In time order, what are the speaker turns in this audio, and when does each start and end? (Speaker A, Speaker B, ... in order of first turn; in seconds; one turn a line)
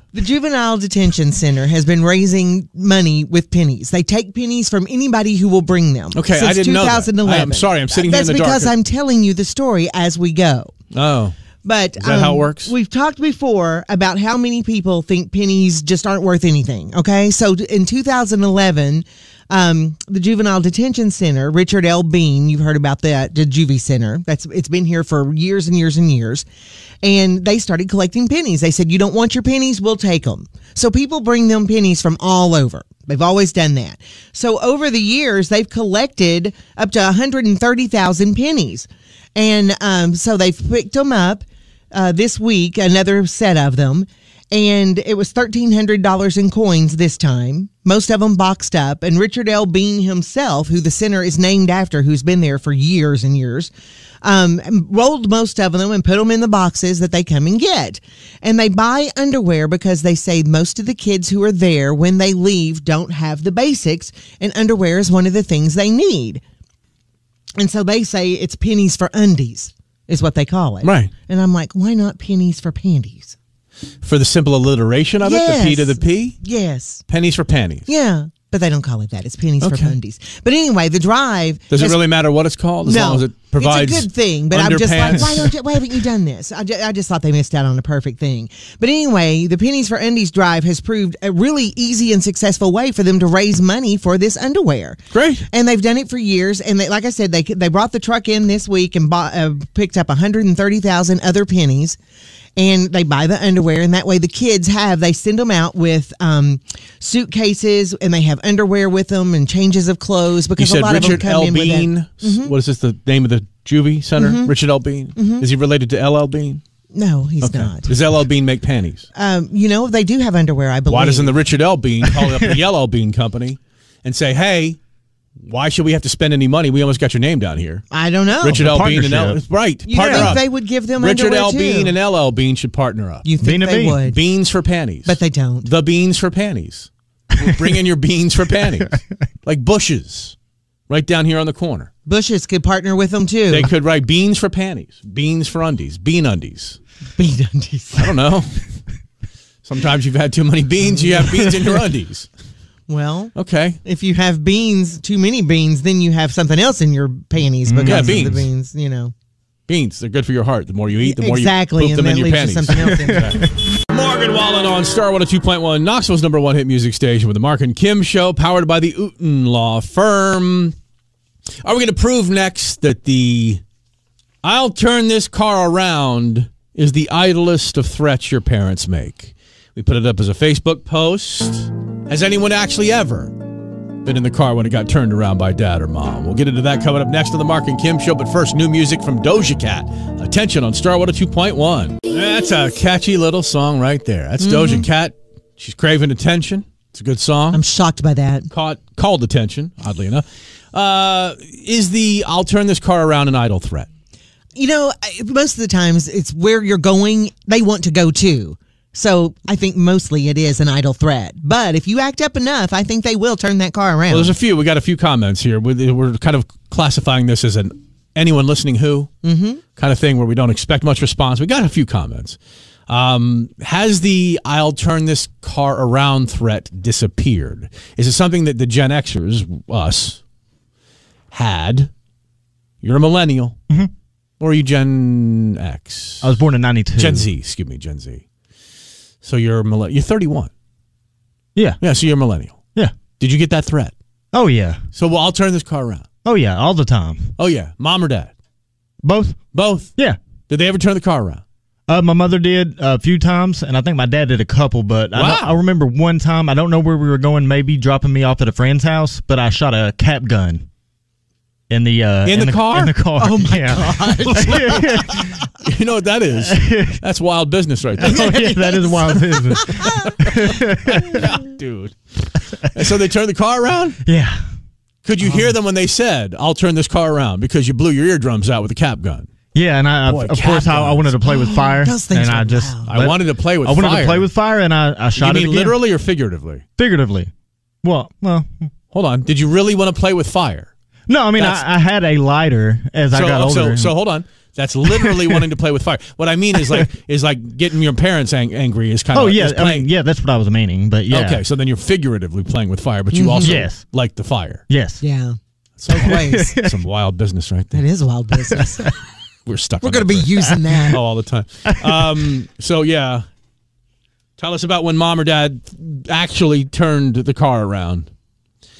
Speaker A: 0.1-10.7
Speaker B: 6.1-8.7
Speaker B: 10.9-11.3
Speaker A: 11.6-26.4
Speaker B: 12.0-12.7
Speaker A: 27.0-53.7
Speaker A: 54.2-66.4
Speaker A: 67.6-73.3
Speaker B: 70.8-71.1
Speaker B: 74.0-76.4
Speaker A: 75.2-77.0
Speaker B: 77.1-77.9
Speaker A: 77.9-82.0
Speaker B: 79.6-80.0
Speaker B: 81.7-85.5
Speaker A: 82.8-102.0
Speaker B: 95.1-95.5
Speaker A: 102.5-112.5
Speaker B: 110.6-116.6
Speaker A: 114.2-114.5
Speaker A: 115.2-115.5
Speaker A: 116.9-117.9
Speaker B: 117.4-119.1
Speaker A: 119.2-121.3
Speaker B: 120.9-124.8
Speaker B: 125.4-127.8
Speaker A: 127.9-128.7
Speaker B: 128.4-130.4
Speaker C: 128.4-129.4
Speaker A: 129.9-131.9
Speaker C: 129.9-130.4
Speaker B: 131.0-133.2
Speaker A: 133.2-134.2
Speaker C: 133.4-134.0
Speaker B: 134.0-140.3
Speaker A: 135.1-135.7
Speaker B: 140.9-141.9
Speaker A: 142.1-143.7
Speaker B: 143.5-146.8
Speaker A: 147.2-148.1
Speaker B: 147.9-148.6
Speaker B: 149.6-152.3
Speaker A: 152.9-159.1
Speaker B: 153.3-153.8
Speaker C: 157.7-158.4
Speaker B: 157.8-158.5
Speaker B: 159.7-170.7
Speaker A: 161.0-163.4
Speaker C: 162.9-163.4
Speaker B: 171.6-173.6
Speaker B: 174.4-183.3
Speaker B: 184.0-197.6
Speaker A: 194.4-194.8
Speaker A: 197.5-198.5
Speaker B: 198.5-203.9
Speaker A: 204.5-214.3
Speaker B: 214.1-219.1
Speaker A: 219.2-219.6
Speaker B: 219.8-222.4
Speaker B: 222.9-230.2
Speaker B: 231.3-231.9
Speaker B: 232.8-233.5
Speaker B: 234.4-236.3
Speaker C: 236.2-237.3
Speaker B: 237.0-238.2
Speaker B: 239.2-240.5
Speaker C: 241.5-241.8
Speaker B: 241.8-242.6
Speaker B: 243.2-243.9
Speaker C: 244.3-244.8
Speaker B: 244.9-246.1
Speaker C: 246.2-247.3
Speaker B: 247.4-248.3
Speaker C: 249.0-249.4
Speaker B: 249.5-249.9
Speaker B: 250.5-251.4
Speaker C: 251.9-260.6
Speaker B: 255.1-255.6
Speaker C: 261.7-265.3
Speaker B: 262.2-263.0
Speaker A: 263.2-265.3
Speaker B: 265.6-268.8
Speaker C: 266.4-267.0
Speaker C: 268.0-271.2
Speaker A: 268.1-270.1
Speaker B: 270.9-274.0
Speaker C: 274.0-274.4
Speaker B: 275.0-279.3
Speaker C: 279.5-285.8
Speaker B: 280.1-281.2
Speaker A: 281.2-282.9
Speaker B: 282.9-284.3
Speaker B: 285.1-286.6
Speaker C: 286.8-287.3
Speaker C: 287.8-288.7
Speaker B: 288.9-290.7
Speaker C: 291.1-293.9
Speaker B: 291.4-291.6
Speaker B: 293.1-299.9
Speaker C: 294.9-295.4
Speaker C: 296.5-296.9
Speaker C: 299.1-301.4
Speaker B: 301.1-304.6
Speaker A: 303.1-303.6
Speaker C: 303.4-303.8
Speaker C: 304.7-305.0
Speaker A: 305.0-305.4
Speaker B: 305.8-307.8
Speaker A: 305.9-306.6
Speaker C: 306.0-306.8
Speaker A: 307.7-308.9
Speaker B: 309.4-313.2
Speaker A: 309.8-311.0
Speaker C: 311.7-312.0
Speaker B: 314.4-318.1